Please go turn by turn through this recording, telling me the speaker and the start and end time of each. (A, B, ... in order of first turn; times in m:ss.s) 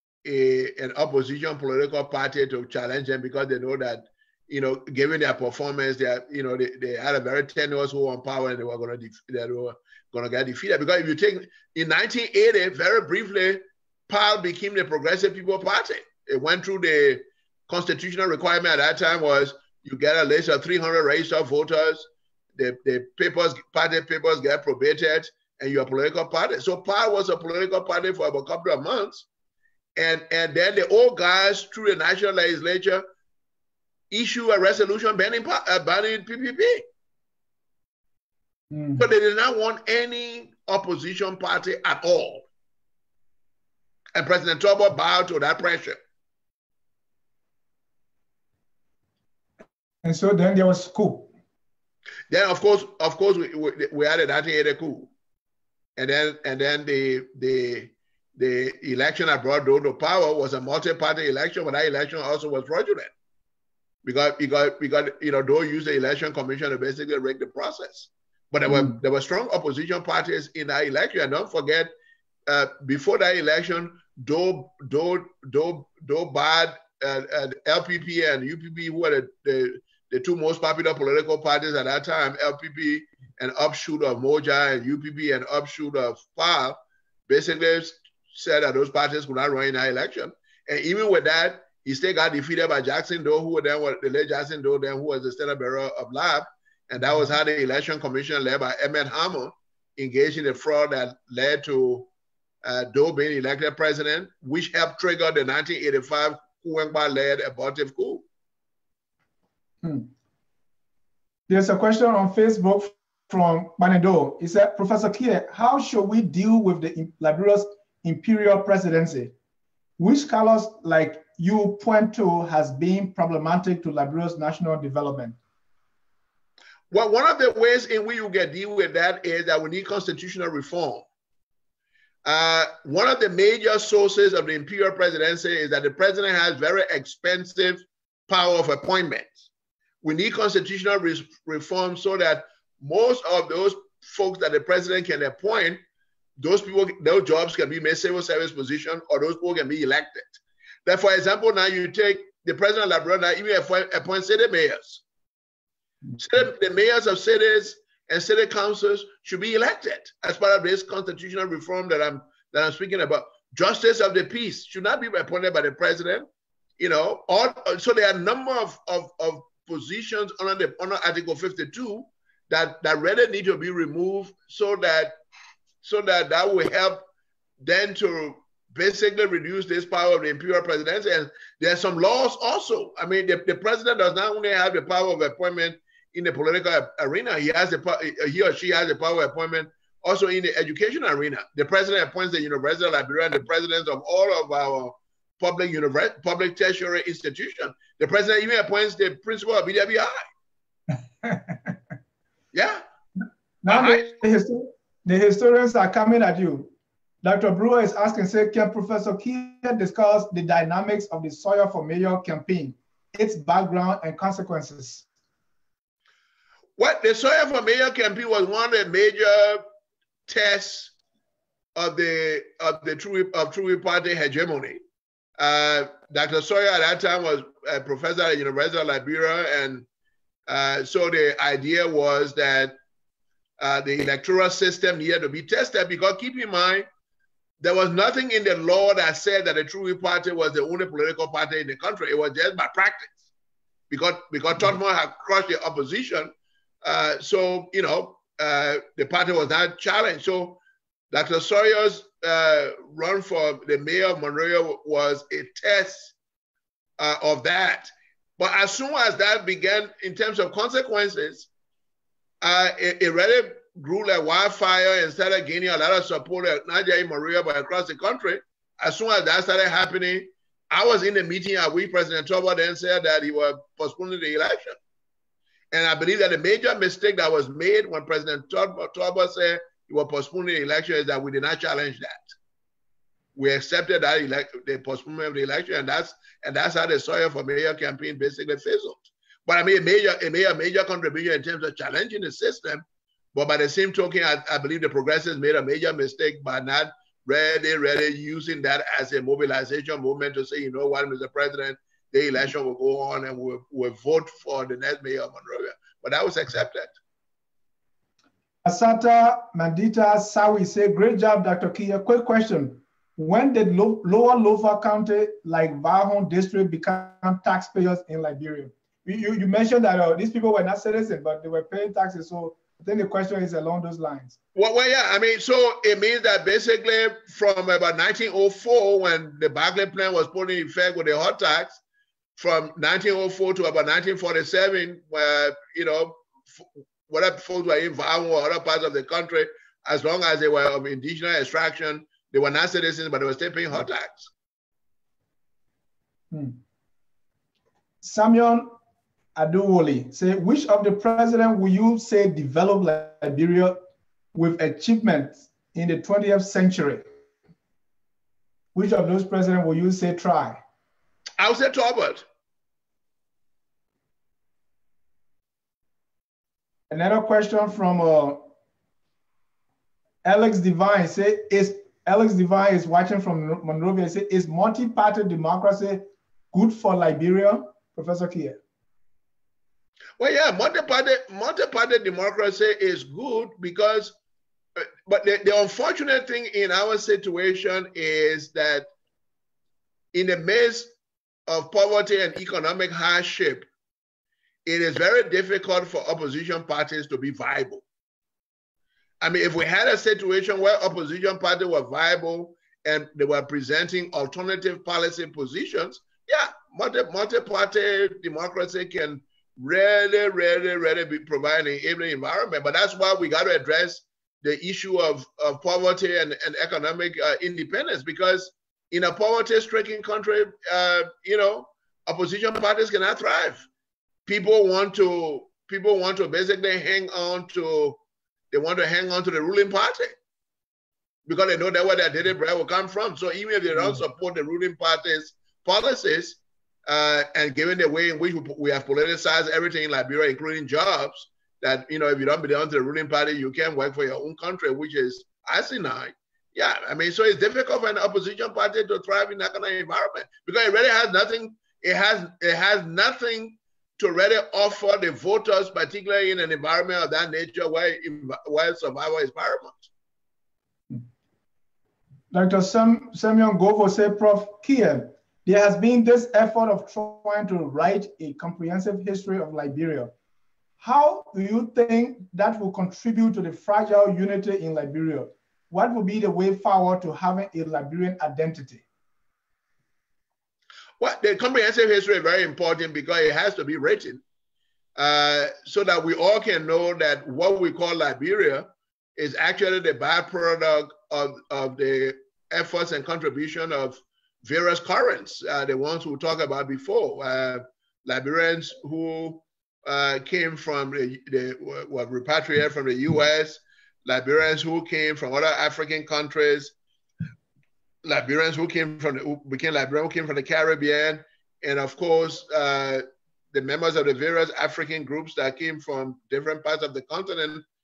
0:00.2-0:29.2 A
0:30.0-0:33.0 A
0:34.1-0:36.8 A
0:38.7-0:39.0 B
0:39.0-0:42.4 A
0:44.1-0:46.0 A
0:50.0-0:51.3 B
0:52.3-0:55.1 A
0:56.0-1:03.1 A
1:04.0-1:11.9 A
1:08.7-1:09.0 B
1:12.5-1:42.1 A
1:42.6-1:48.2 A
1:49.8-1:50.1 B
1:51.5-1:59.3 B
2:00.0-2:05.4 B
2:06.9-2:11.0 A
2:12.2-2:19.4 A
2:20.0-2:25.8 A
2:26.4-2:35.0 A
2:36.2-2:46.2 A
2:46.8-2:55.1 A
2:55.8-2:57.0 A
2:57.6-3:20.2 A
3:21.2-3:21.7 B
3:22.5-3:22.8 A
3:23.6-3:26.7 B
3:23.7-3:24.1 A
3:27.2-3:35.0 B
3:36.8-3:39.6 A
3:40.3-3:40.9 A
3:41.7-3:44.8 A
3:45.4-3:49.8 A
3:50.5-3:52.7 A
3:53.6-3:56.9 A
3:57.6-4:03.2 A
4:03.9-4:06.3 A
4:06.8-4:16.1 A
4:17.0-4:21.5 A
4:22.4-4:34.8 A
4:35.7-4:42.3 A
4:43.4-5:06.9 A
5:08.6-5:24.4 B
5:24.5-5:31.8 A
5:32.4-5:44.3 A
5:46.3-5:46.6 B
5:48.0-5:48.7 B
5:49.3-5:53.8 B
5:54.3-5:57.0 B
5:58.7-6:00.6 B
6:01.4-6:02.2 A
6:06.9-6:08.5 B
6:10.2-6:18.6 B
6:20.2-6:24.2 A
6:24.8-6:28.8 A
6:30.1-6:30.9 A
6:31.5-6:33.7 A
6:34.6-6:37.8 A
6:39.2-7:03.6 A
7:04.2-7:08.0 A
7:08.5-7:10.2 A
7:11.2-7:39.9 A
7:42.3-7:50.1 B
7:50.8-7:58.8 B
8:01.0-8:04.2 A
8:05.0-8:26.7 A
8:28.0-8:37.6 A